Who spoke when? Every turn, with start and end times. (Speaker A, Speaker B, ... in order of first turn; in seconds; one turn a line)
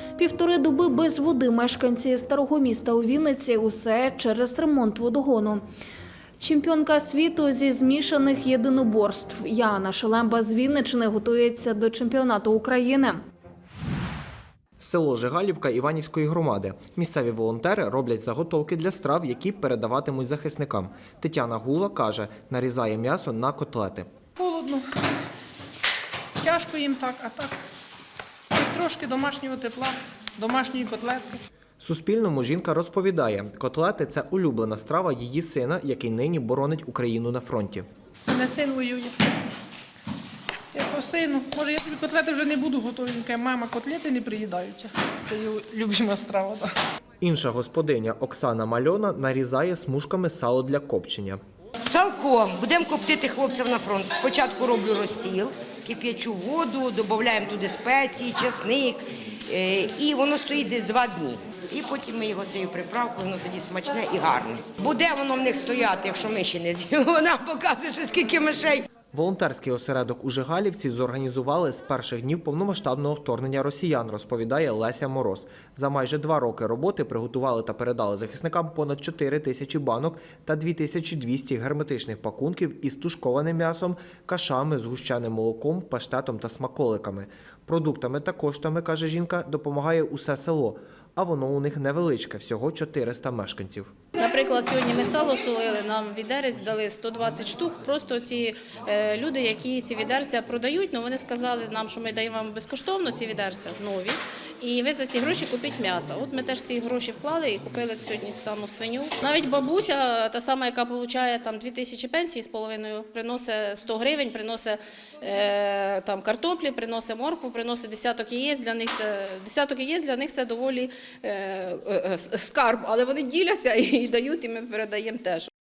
Speaker A: 0.1-5.6
Speaker A: 6.4-13.2
Speaker B: 14.8-24.1
Speaker C: 24.4-24.8
Speaker C: 26.4-27.6
Speaker C: 28.5-31.4
Speaker B: 31.8-37.9
Speaker C: 38.3-39.1
Speaker C: 40.7-46.6
Speaker B: 47.2-51.4
Speaker D: 51.8-68.8
Speaker B: 69.1-93.9
Speaker E: 94.2-125.5